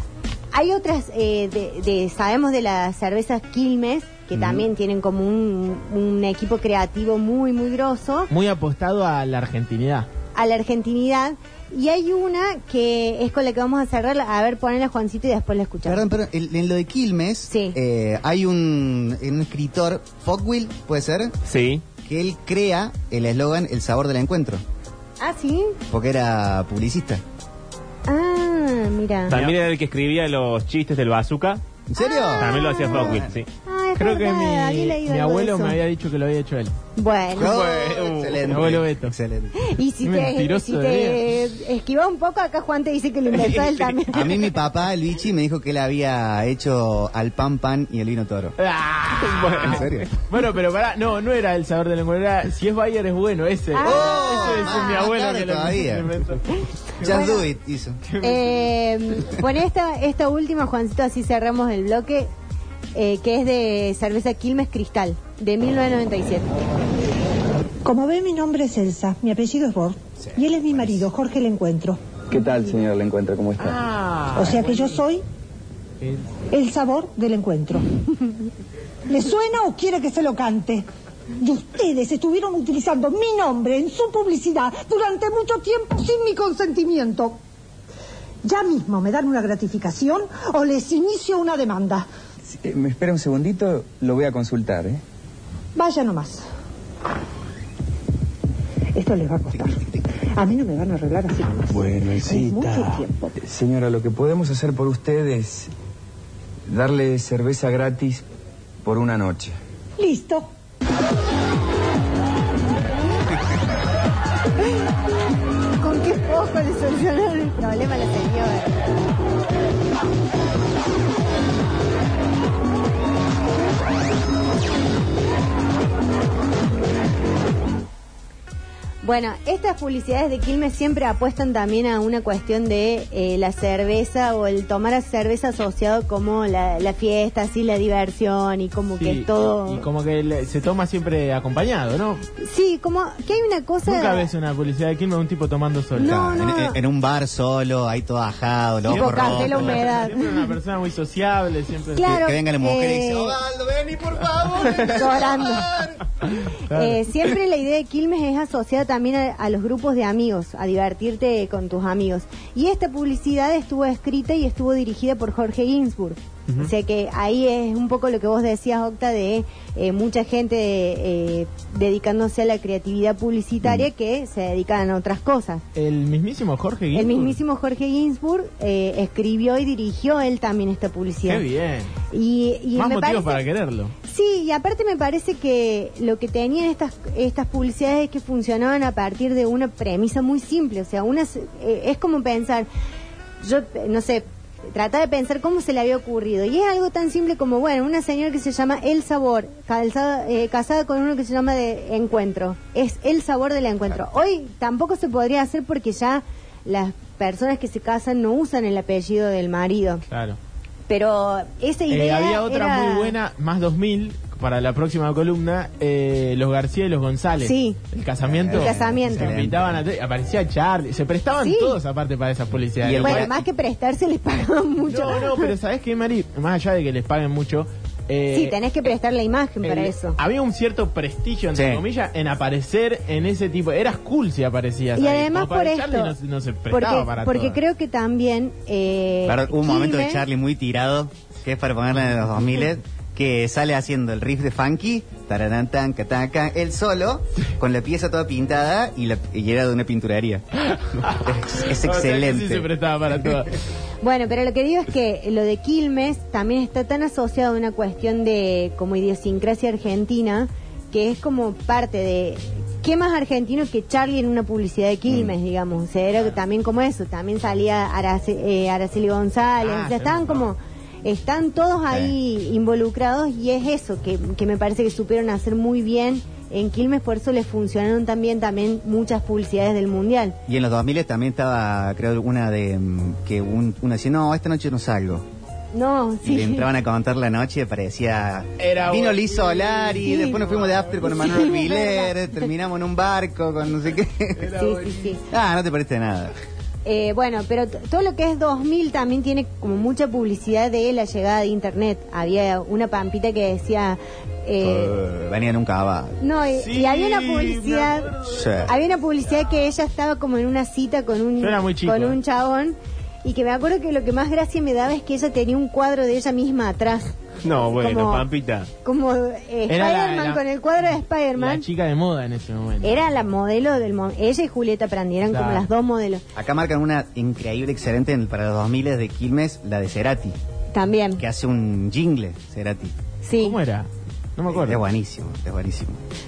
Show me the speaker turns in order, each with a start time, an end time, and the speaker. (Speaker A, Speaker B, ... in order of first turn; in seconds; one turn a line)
Speaker A: 0.5-8.3
Speaker B: 4.3-4.7
Speaker C: 8.3-10.1
Speaker A: 10.3-16.1
Speaker B: 15.8-21.3
Speaker A: 17.5-17.8
Speaker D: 21.4-21.8
Speaker B: 22.0-24.6
Speaker A: 25.2-25.8
Speaker B: 25.9-27.2
Speaker A: 28.1-29.3
Speaker D: 29.3-31.6
Speaker B: 31.9-33.4
Speaker A: 32.0-35.8
Speaker D: 32.4-33.5
Speaker C: 34.0-36.7
Speaker A: 37.0-37.7
Speaker B: 37.3-39.5
Speaker D: 37.7-38.5
Speaker C: 38.5-39.1
Speaker A: 39.6-44.3
Speaker C: 40.0-41.4
Speaker D: 43.4-43.7
Speaker B: 44.1-48.5
Speaker C: 48.6-56.5
Speaker D: 49.2-49.8
Speaker B: 49.6-50.1
Speaker A: 53.7-55.0
Speaker B: 53.8-56.2
Speaker B: 57.0-58.0
Speaker A: 57.0-57.5
Speaker A: 58.2-62.3
Speaker A: 62.9-66.5
Speaker E: 67.8-72.0
Speaker B: 70.2-71.0
Speaker F: 72.3-73.8
Speaker E: 74.3-75.2
Speaker E: 76.5-77.9
Speaker E: 79.1-80.8
Speaker E: 81.4-87.4
Speaker E: 88.4-92.1
Speaker F: 92.5-95.0
Speaker E: 95.8-96.5
Speaker E: 98.9-103.4
Speaker F: 101.7-105.7
Speaker F: 106.7-108.2
Speaker F: 108.8-109.6
Speaker E: 110.0-110.5
Speaker A: 115.8-118.8
Speaker A: 129.0-139.8
Speaker C: 139.0-142.2
Speaker A: 142.4-144.3
Speaker C: 143.8-146.2
Speaker A: 145.9-146.8
Speaker B: 146.0-149.9
Speaker A: 148.9-150.3
Speaker C: 148.9-152.1
Speaker A: 151.9-153.4
Speaker B: 152.0-156.0
Speaker C: 154.8-155.0
Speaker A: 154.8-155.7
Speaker C: 156.5-157.3
Speaker A: 156.7-175.6
Speaker C: 175.8-177.4
Speaker A: 176.9-181.4
Speaker C: 181.2-181.9
Speaker A: 182.1-183.4
Speaker C: 182.8-183.9
Speaker A: 184.1-192.7
Speaker A: 193.4-210.0
Speaker C: 210.1-210.4
Speaker A: 210.9-213.2
Speaker C: 211.9-223.3
Speaker A: 217.4-217.8
Speaker B: 218.2-219.8
Speaker A: 218.5-219.4
Speaker A: 221.4-221.8
Speaker B: 222.8-223.4
Speaker A: 223.0-225.5
Speaker C: 224.8-228.6
Speaker A: 228.3-230.2
Speaker C: 229.6-237.6
Speaker B: 231.5-231.8
Speaker A: 235.0-236.1
Speaker A: 236.7-240.2
Speaker B: 239.2-250.4
Speaker C: 250.7-253.5
Speaker B: 251.1-252.7
Speaker A: 254.0-280.4
Speaker B: 265.1-265.3
Speaker C: 269.6-270.5
Speaker B: 271.9-272.1
Speaker B: 280.5-285.2
Speaker A: 285.7-286.7
Speaker B: 286.2-294.5
Speaker C: 288.6-291.5
Speaker A: 290.0-290.4
Speaker A: 291.0-292.1
Speaker C: 294.4-295.1
Speaker A: 294.5-295.2
Speaker B: 295.3-296.3
Speaker A: 296.9-304.9
Speaker B: 304.6-306.2
Speaker A: 306.2-318.2
Speaker C: 306.5-308.7
Speaker B: 308.3-308.7
Speaker C: 311.4-312.2
Speaker D: 317.4-318.7
Speaker A: 318.8-321.6
Speaker C: 319.7-320.4
Speaker C: 321.4-322.9
Speaker A: 322.8-326.2
Speaker C: 325.2-325.7
Speaker B: 326.3-330.4
Speaker A: 330.7-331.2
Speaker B: 331.2-332.9
Speaker A: 333.2-333.6
Speaker C: 333.4-334.8
Speaker B: 334.5-336.0